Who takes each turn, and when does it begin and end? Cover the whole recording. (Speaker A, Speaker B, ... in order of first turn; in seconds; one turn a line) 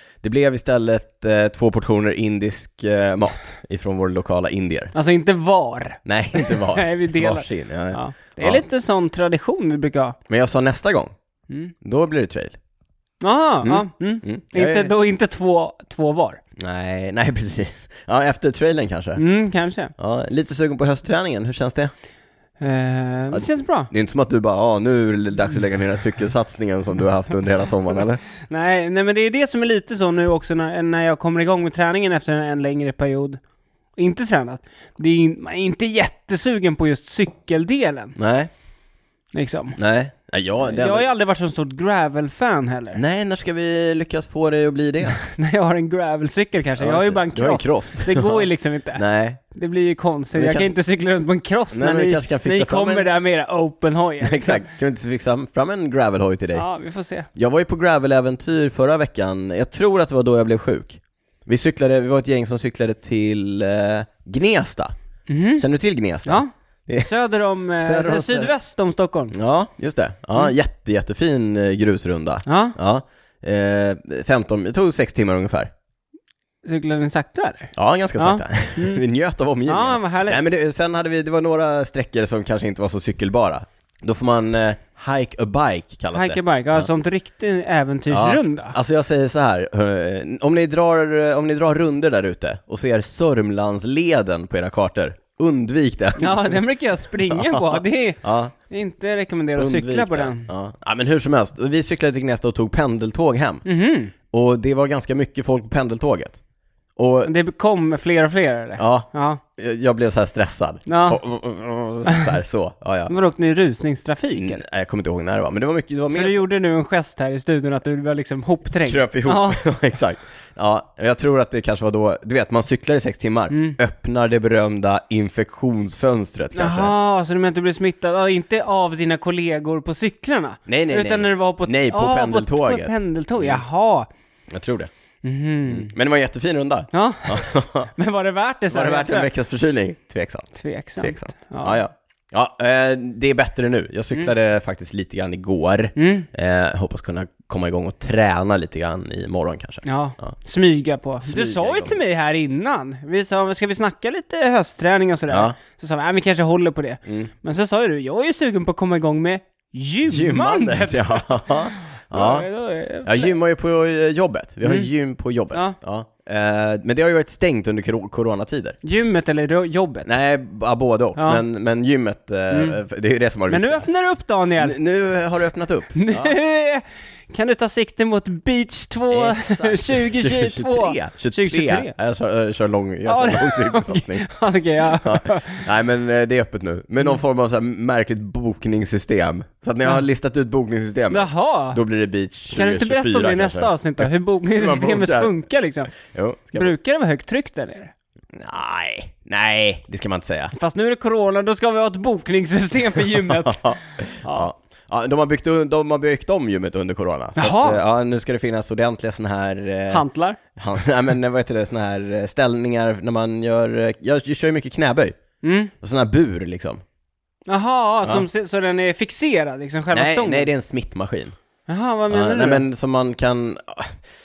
Speaker A: 0.2-4.9
Speaker B: 4.9-10.2
Speaker A: 6.0-8.6
Speaker A: 10.3-11.1
Speaker A: 11.8-12.6
Speaker B: 13.2-16.4
Speaker A: 13.6-14.9
Speaker A: 16.6-19.2
Speaker B: 19.2-19.9
Speaker A: 20.0-21.9
Speaker B: 22.6-23.9
Speaker A: 23.3-28.2
Speaker B: 28.4-33.4
Speaker B: 34.0-38.1
Speaker A: 38.2-38.5
Speaker B: 39.3-39.8
Speaker A: 39.8-41.1
Speaker B: 40.7-43.0
Speaker A: 42.9-45.2
Speaker B: 45.1-54.6
Speaker A: 46.8-49.4
Speaker A: 50.3-50.7
Speaker A: 51.7-53.1
Speaker A: 54.2-56.6
Speaker B: 56.5-57.3
Speaker A: 57.3-64.9
Speaker B: 65.3-65.6
Speaker A: 65.6-67.1
Speaker B: 66.2-69.3
Speaker A: 67.8-68.5
Speaker A: 69.3-75.7
Speaker B: 72.5-72.8
Speaker B: 76.6-79.0
Speaker A: 77.7-86.9
Speaker B: 79.7-80.4
Speaker B: 86.2-88.8
Speaker A: 88.1-96.6
Speaker B: 96.2-100.5
Speaker A: 97.3-98.5
Speaker A: 99.5-103.7
Speaker B: 103.7-104.1
Speaker A: 104.3-106.4
Speaker A: 107.0-107.3
Speaker B: 107.3-109.4
Speaker A: 108.8-113.1
Speaker B: 110.9-111.2
Speaker B: 113.1-114.6
Speaker A: 114.3-116.4
Speaker B: 116.1-119.6
Speaker A: 118.9-126.9
Speaker B: 123.5-123.8
Speaker B: 126.5-134.1
Speaker A: 130.7-133.6
Speaker A: 134.5-134.9
Speaker B: 135.2-135.9
Speaker A: 135.7-137.9
Speaker B: 136.9-139.3
Speaker A: 138.7-150.3
Speaker B: 140.6-141.8
Speaker B: 146.0-146.3
Speaker B: 149.8-161.5
Speaker A: 151.2-152.0
Speaker A: 155.3-155.6
Speaker A: 157.1-157.3
Speaker A: 160.1-162.5
Speaker B: 162.1-163.3
Speaker A: 163.0-168.8
Speaker B: 168.8-170.1
Speaker A: 170.0-173.8
Speaker B: 171.2-171.4
Speaker B: 172.5-172.8
Speaker B: 173.5-174.8
Speaker A: 174.6-176.3
Speaker B: 175.9-181.9
Speaker A: 179.1-184.2
Speaker B: 183.1-185.7
Speaker A: 184.9-195.3
Speaker B: 191.1-191.8
Speaker B: 192.5-195.9
Speaker A: 196.0-196.7
Speaker B: 196.5-197.9
Speaker A: 198.3-200.5
Speaker B: 200.5-203.6
Speaker A: 203.3-210.0
Speaker B: 207.3-207.8
Speaker B: 209.9-210.4
Speaker A: 210.6-215.2
Speaker B: 215.4-215.7
Speaker A: 215.8-216.8
Speaker B: 217.5-220.5
Speaker A: 219.9-221.3
Speaker B: 221.7-222.6
Speaker A: 222.1-223.9